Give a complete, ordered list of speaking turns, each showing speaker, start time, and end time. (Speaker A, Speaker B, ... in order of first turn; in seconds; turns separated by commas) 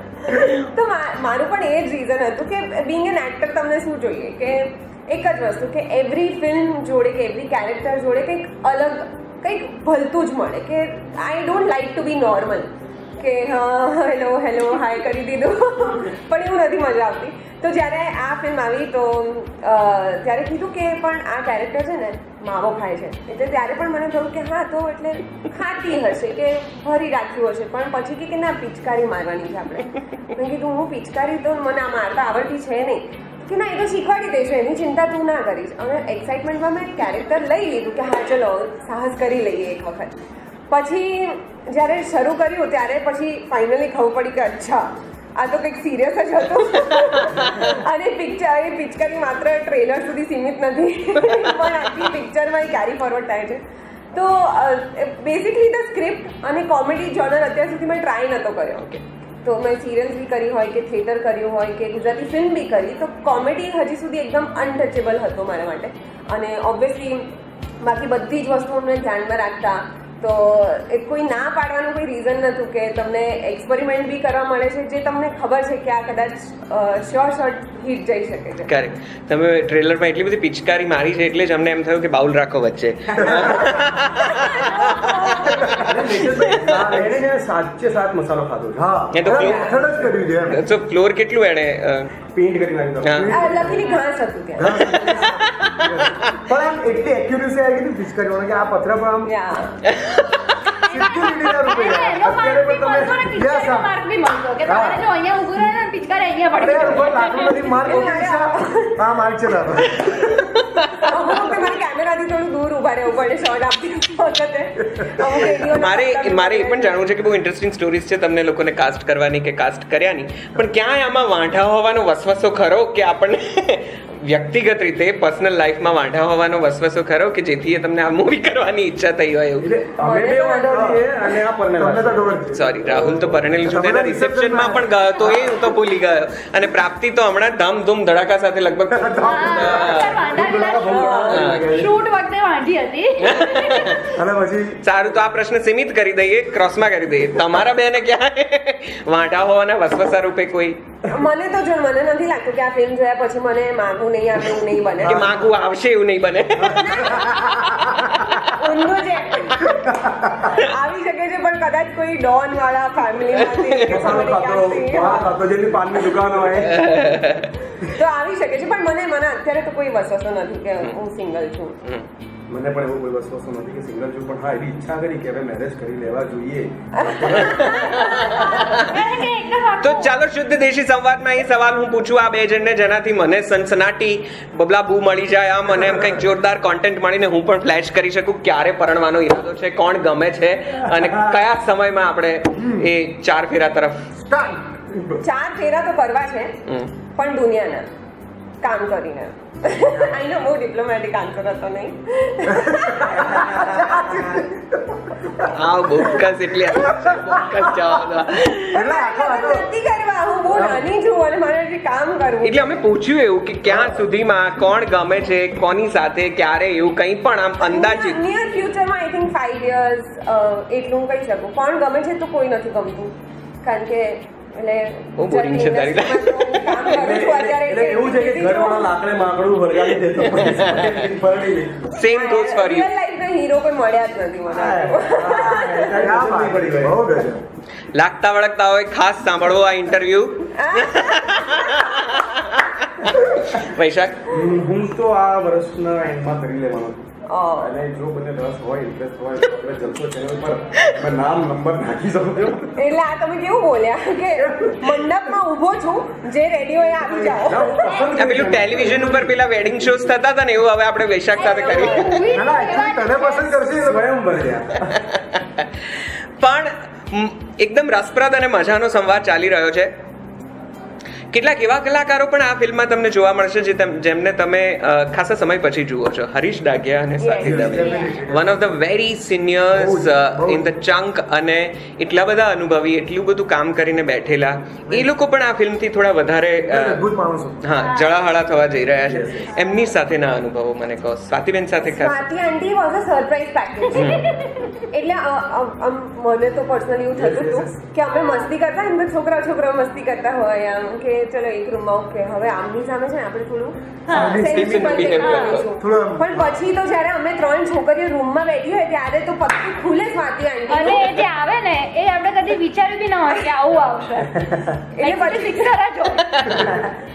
Speaker A: 0.3-40.1, Speaker A: 40.7-53.6, Speaker B: 51.3-51.5, Speaker A: 54.1-58.9, Speaker A: 59.4-78.7, Speaker B: 78.7-87.0, Speaker C: 83.2-83.7, Speaker D: 83.2-83.7, Speaker A: 84.3-85.5, Speaker C: 85.7-89.5, Speaker D: 85.8-87.3, Speaker D: 88.8-90.6, Speaker B: 89.1-92.1, Speaker A: 89.4-89.7, Speaker C: 92.3-93.7, Speaker B: 93.0-93.3, Speaker D: 93.0-93.9, Speaker A: 93.3-95.3, Speaker D: 94.5-99.3, Speaker A: 99.3-99.8, Speaker B: 99.9-100.8, Speaker E: 100.9-107.9, Speaker D: 100.9-103.9, Speaker D: 104.7-105.1, Speaker D: 106.6-110.6, Speaker A: 107.8-109.0, Speaker A: 111.1-117.0, Speaker B: 115.7-129.7, Speaker C: 129.6-132.3, Speaker A: 130.0-131.0, Speaker D: 130.5-131.1, Speaker D: 131.8-135.4, Speaker B: 132.5-140.2, Speaker C: 132.9-133.4, Speaker D: 138.9-141.8, Speaker E: 139.2-144.1, Speaker C: 139.7-141.9, Speaker A: 140.9-141.4, Speaker B: 141.3-141.7, Speaker B: 143.2-144.0, Speaker D: 144.1-144.8, Speaker B: 144.8-150.8, Speaker A: 151.1-155.5, Speaker B: 155.0-157.3, Speaker D: 155.1-155.4, Speaker A: 156.6-157.8, Speaker D: 157.1-157.8, Speaker A: 158.3-159.8, Speaker D: 159.9-160.6, Speaker A: 160.4-165.3, Speaker B: 163.5-163.8, Speaker C: 163.9-167.0, Speaker D: 164.9-165.4, Speaker B: 166.7-167.5, Speaker A: 167.8-171.8, Speaker C: 172.5-177.6, Speaker A: 176.9-178.2, Speaker B: 177.4-179.0, Speaker E: 177.9-180.2, Speaker B: 179.8-194.2, Speaker C: 191.0-191.3, Speaker D: 192.6-192.9, Speaker D: 194.2-195.2, Speaker A: 195.2-196.6, Speaker B: 196.7-196.9, Speaker A: 197.2-197.9, Speaker A: 198.6-204.2, Speaker D: 199.9-200.2, Speaker D: 202.5-205.4, Speaker B: 205.5-208.8, Speaker D: 208.7-209.7, Speaker A: 208.7-212.7, Speaker D: 210.5-210.9, Speaker B: 212.4-218.2, Speaker A: 217.6-229.0, Speaker B: 225.2-227.0, Speaker C: 226.9-231.9, Speaker B: 230.3-231.0, Speaker B: 231.9-232.9, Speaker A: 232.0-235.8, Speaker C: 234.5-237.3, Speaker D: 235.1-237.5, Speaker B: 237.9-244.3, Speaker A: 240.6-241.9, Speaker C: 244.3-247.1, Speaker A: 247.3-247.8, Speaker C: 247.6-252.8, Speaker A: 252.8-258.1, Speaker D: 257.1-257.6, Speaker C: 257.2-260.0, Speaker B: 258.1-262.2, Speaker E: 261.4-263.6, Speaker A: 261.4-262.2, Speaker D: 262.3-264.6, Speaker C: 263.8-265.0, Speaker B: 265.1-269.9, Speaker B: 271.3-287.1, Speaker A: 277.2-278.1, Speaker D: 277.4-278.8, Speaker D: 279.7-280.8, Speaker D: 286.7-287.6, Speaker B: 287.6-292.2, Speaker E: 287.8-288.2, Speaker C: 289.1-289.5, Speaker E: 289.5-290.0, Speaker A: 291.9-294.3, Speaker B: 293.9-294.3, Speaker E: 293.9-294.8, Speaker A: 294.9-311.2, Speaker D: 297.1-297.8, Speaker E: 304.1-304.4, Speaker D: 304.1-305.1, Speaker B: 304.2-305.7, Speaker E: 305.2-305.6, Speaker D: 305.7-306.6, Speaker E: 310.7-316.4, Speaker A: 315.0-315.7, Speaker B: 316.3-316.6